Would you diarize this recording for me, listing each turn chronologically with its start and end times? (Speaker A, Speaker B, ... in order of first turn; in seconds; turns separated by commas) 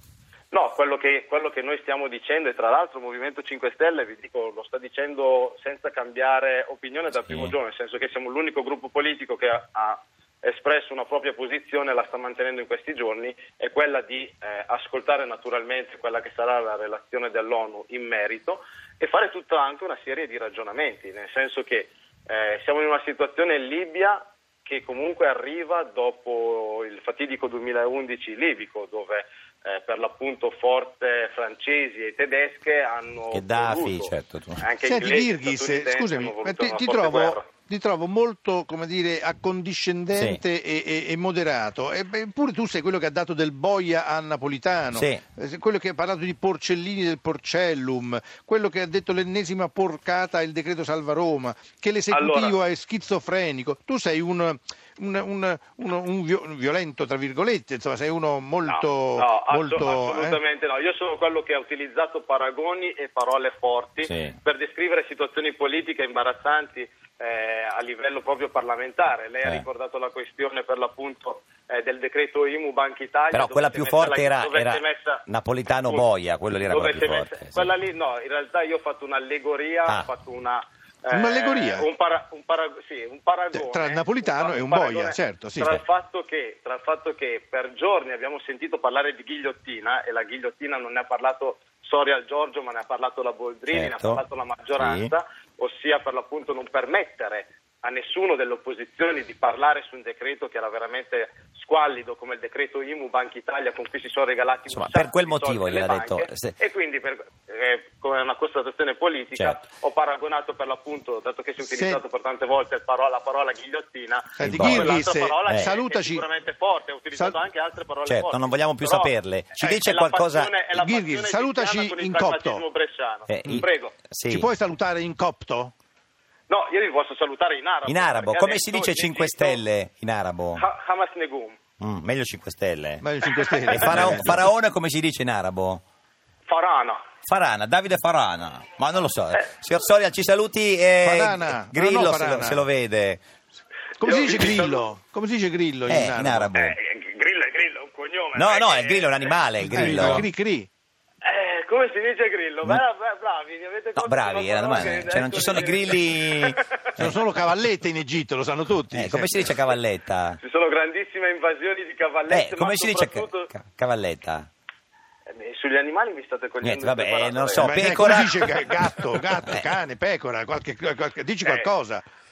Speaker A: 0.5-37.5, Speaker B: 7.3-7.5, Speaker B: 33.3-34.6, Speaker C: 34.8-60.4, Speaker B: 40.1-40.4, Speaker B: 44.9-45.2, Speaker A: 52.1-52.6, Speaker A: 58.6-75.2, Speaker B: 64.0-64.4, Speaker B: 73.3-77.7, Speaker A: 76.7-119.1, Speaker C: 81.1-81.8, Speaker C: 83.5-85.7, Speaker B: 93.7-94.2, Speaker B: 94.8-95.1, Speaker B: 104.7-106.5, Speaker B: 109.3-109.6, Speaker C: 111.6-112.0, Speaker C: 114.4-116.2, Speaker B: 114.4-115.7, Speaker B: 118.0-120.5, Speaker A: 119.7-124.0, Speaker C: 120.7-122.6, Speaker B: 123.3-124.5, Speaker C: 124.3-125.7, Speaker A: 126.5-129.6, Speaker B: 127.8-130.6, Speaker A: 130.6-131.6, Speaker B: 131.8-133.0, Speaker C: 133.0-134.4, Speaker A: 133.5-134.0, Speaker B: 133.7-135.8, Speaker A: 136.5-137.0, Speaker B: 137.2-143.2, Speaker C: 141.0-142.7, Speaker C: 144.0-146.5, Speaker A: 144.0-144.9, Speaker B: 145.9-146.7, Speaker A: 146.5-149.3, Speaker B: 148.3-150.3, Speaker C: 149.6-150.7, Speaker A: 151.2-156.7, Speaker B: 153.9-157.1, Speaker C: 157.0-159.5, Speaker B: 158.9-160.4, Speaker A: 160.4-163.5, Speaker B: 162.3-164.5, Speaker A: 165.3-169.1, Speaker B: 166.6-168.6, Speaker C: 167.6-172.0, Speaker A: 171.4-171.7